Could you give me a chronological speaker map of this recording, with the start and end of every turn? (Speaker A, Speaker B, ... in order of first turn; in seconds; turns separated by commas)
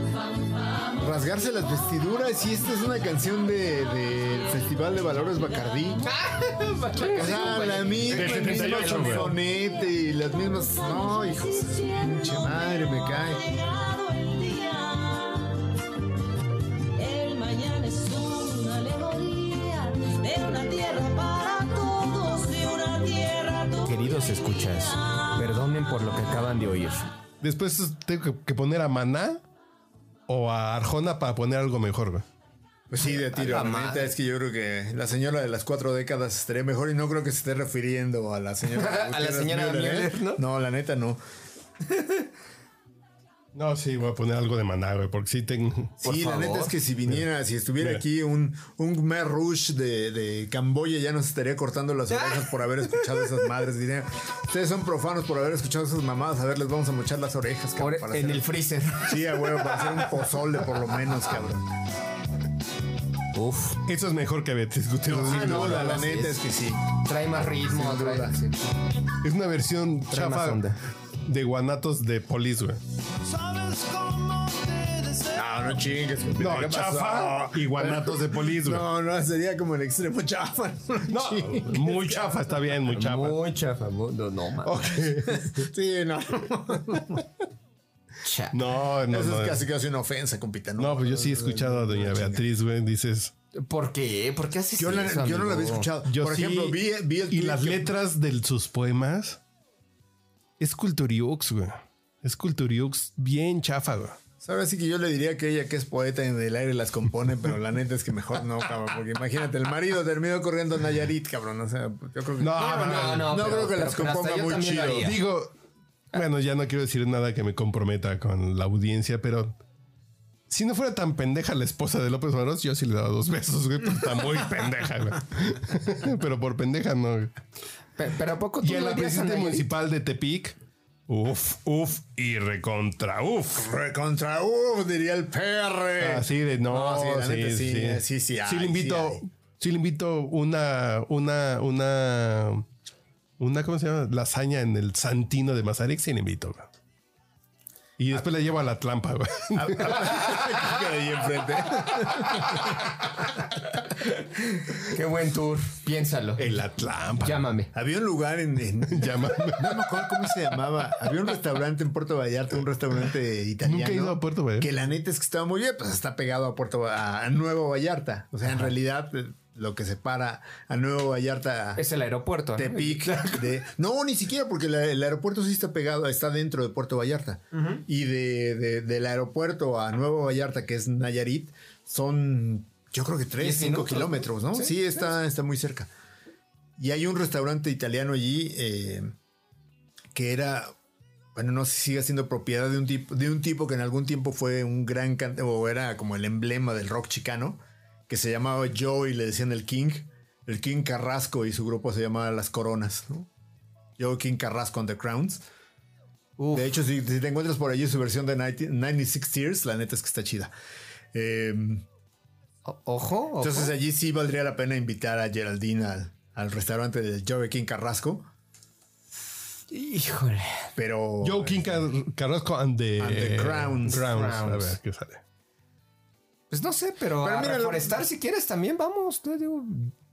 Speaker A: 1.0-6.0, Speaker B: 6.0-9.2, Speaker A: 7.0-13.4, Speaker C: 8.1-9.3, Speaker D: 9.8-15.6, Speaker D: 16.9-25.3, Speaker B: 23.9-27.1, Speaker C: 27.4-29.4, Speaker C: 30.3-32.2, Speaker A: 32.9-41.2, Speaker B: 33.3-34.1, Speaker B: 38.7-40.4, Speaker C: 43.5-45.9, Speaker A: 46.0-61.6, Speaker B: 46.0-46.7, Speaker B: 57.8-59.9, Speaker B: 63.3-63.8, Speaker C: 63.9-66.1, Speaker A: 65.1-68.4, Speaker B: 65.3-66.4, Speaker B: 67.0-68.6, Speaker C: 69.2-70.6, Speaker B: 70.1-70.8, Speaker C: 71.3-72.8, Speaker A: 75.3-82.4, Speaker C: 76.4-78.9, Speaker C: 81.1-83.4, Speaker B: 82.9-85.0, Speaker C: 84.7-85.7, Speaker A: 85.3-87.2, Speaker B: 88.2-88.6, Speaker C: 88.5-89.6, Speaker A: 89.1-92.5, Speaker C: 90.8-93.3, Speaker B: 93.5-95.9, Speaker A: 94.8-97.9, Speaker C: 96.1-99.4, Speaker C: 100.6-104.2, Speaker A: 104.4-115.1, Speaker C: 112.4-113.4, Speaker B: 112.6-115.2, Speaker C: 115.0-115.5, Speaker C: 116.1-119.5, Speaker C: 120.5-127.3, Speaker B: 128.0-129.7, Speaker C: 128.6-130.6, Speaker C: 131.1-133.7, Speaker A: 133.6-139.2, Speaker C: 136.0-142.7, Speaker C: 143.4-146.7, Speaker C: 148.0-150.2, Speaker A: 149.6-152.8, Speaker B: 154.8-156.4, Speaker C: 156.4-157.5, Speaker B: 157.2-157.7, Speaker A: 157.7-171.8, Speaker C: 158.9-160.0, Speaker C: 163.6-164.7, Speaker B: 171.8-173.5, Speaker A: 172.6-185.9, Speaker B: 177.5-177.8, Speaker B: 183.4-184.8, Speaker A: 186.8-189.1, Speaker A: 190.1-190.7, Speaker A: 191.3-203.3, Speaker A: 204.0-205.4, Speaker B: 206.4-206.7, Speaker A: 206.5-210.5, Speaker A: 211.1-211.9, Speaker B: 212.7-213.7, Speaker A: 213.4-218.3, Speaker B: 219.7-220.7, Speaker A: 220.8-221.8, Speaker C: 221.2-225.2, Speaker A: 223.0-224.0, Speaker B: 223.9-224.8, Speaker B: 226.5-229.9, Speaker A: 227.2-228.0